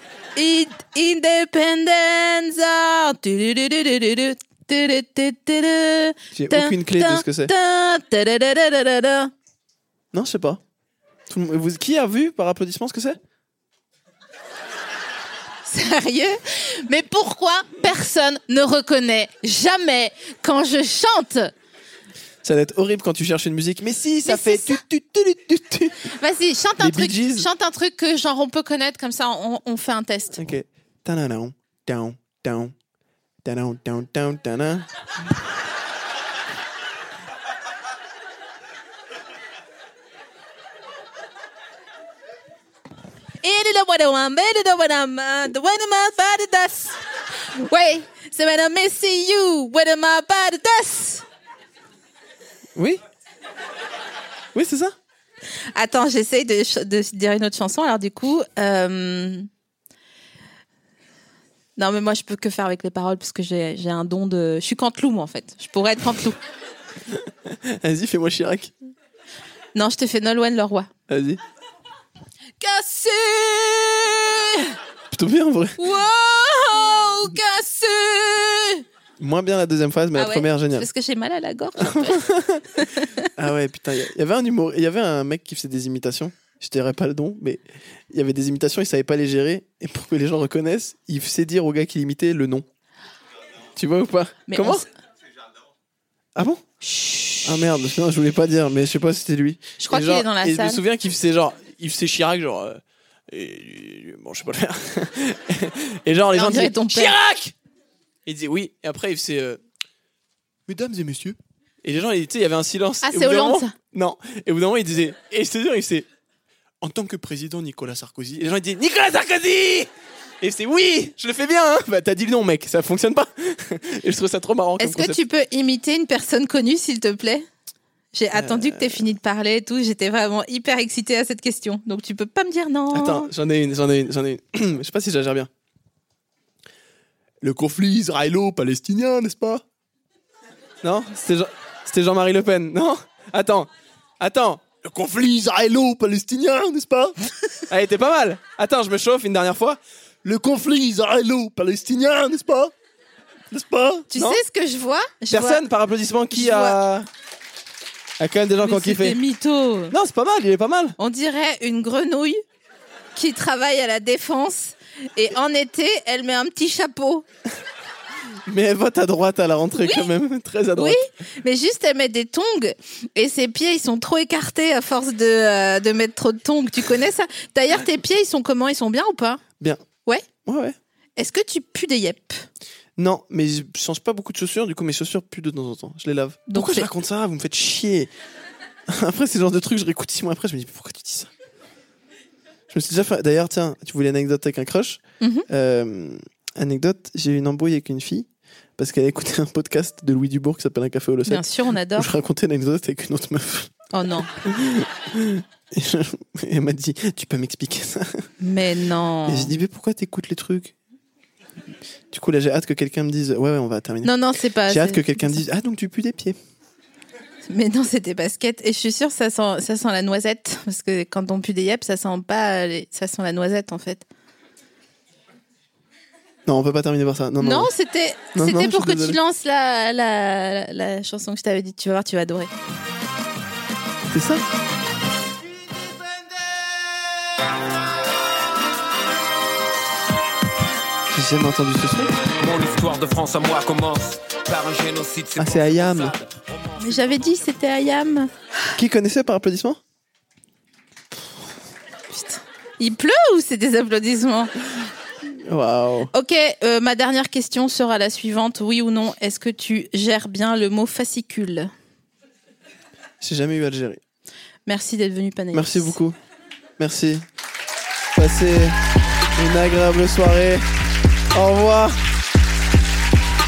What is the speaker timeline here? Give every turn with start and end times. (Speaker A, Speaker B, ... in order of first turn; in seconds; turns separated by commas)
Speaker A: 0.4-9.3, Speaker B: 6.3-7.5, Speaker B: 10.1-10.6, Speaker B: 11.3-13.2, Speaker A: 15.7-21.5, Speaker B: 22.4-26.1, Speaker A: 24.2-24.8, Speaker A: 26.1-30.4, Speaker B: 26.8-27.5, Speaker B: 30.4-32.7, Speaker B: 33.4-34.9, Speaker A: 43.4-51.3, Speaker B: 52.8-53.0, Speaker B: 54.5-54.9, Speaker A: 55.7-59.5, Speaker A: 61.8-66.4, Speaker B: 67.1-68.7, Speaker A: 69.8-70.9, Speaker B: 71.1-71.4, Speaker A: 72.6-74.8, Speaker B: 75.1-75.8, Speaker A: 75.8-78.8, Speaker B: 79.2-80.9, Speaker A: 80.2-83.3, Speaker B: 81.8-82.8, Speaker B: 83.4-92.7, Speaker B: 93.8-94.8, Speaker A: 94.5-94.9, Speaker B: 96.3-96.6, Speaker A: 96.8-97.7, Speaker B: 97.4-107.5, Speaker A: 99.8-100.8, Speaker A: 106.3-107.2, Speaker B: 108.3-109.6, Speaker B: 110.7-116.1, Speaker A: 113.0-113.7, Speaker B: 116.8-119.9, Speaker B: 120.4-125.2, Speaker A: 124.8-127.5, Speaker A: 128.1-133.3, Speaker B: 128.3-129.1, Speaker B: 132.9-135.5, Speaker B: 137.4-139.6, Speaker B: 140.8-143.7, Speaker B: 144.2-147.2, Speaker B: 147.7-152.7, Speaker B: 153.5-154.4, Speaker A: 154.1-155.6, Speaker B: 155.3-157.1, Speaker A: 156.3-156.8, Speaker B: 158.2-159.2, Speaker A: 158.6-159.9, Speaker B: 159.9-161.0, Speaker A: 161.0-162.4, Speaker A: 163.2-167.2, Speaker B: 168.5-171.0, Speaker A: 169.7-170.1, Speaker A: 170.8-179.4, Speaker B: 179.6-179.8, Speaker B: 180.4-180.8, Speaker A: 181.2-182.5, Speaker B: 183.0-188.1, Speaker A: 186.5-186.9, Speaker B: 188.9-191.3, Speaker B: 192.7-203.7, Speaker A: 195.2-195.5, Speaker A: 201.3-202.1, Speaker A: 203.9-204.3, Speaker B: 204.4-208.3, Speaker A: 208.4-209.5, Speaker B: 209.3-210.8, Speaker B: 212.1-214.1, Speaker A: 214.0-215.4, Speaker B: 214.7-216.4, Speaker A: 217.5-224.1, Speaker B: 226.5-227.7, Speaker A: 227.4-232.5, Speaker B: 228.3-229.2, Speaker B: 234.1-234.4, Speaker B: 241.1-242.2, Speaker C: 242.2-247.4, Speaker B: 245.4-246.2, Speaker A: 246.8-248.3, Speaker B: 248.8-249.8, Speaker A: 252.1-254.5, Speaker B: 255.3-256.1, Speaker A: 256.1-261.7, Speaker B: 263.2-264.0, Speaker A: 264.7-266.0, Speaker B: 265.5-266.2, Speaker B: 266.8-267.2, Speaker B: 268.1-268.8, Speaker B: 269.4-270.7, Speaker B: 271.3-272.0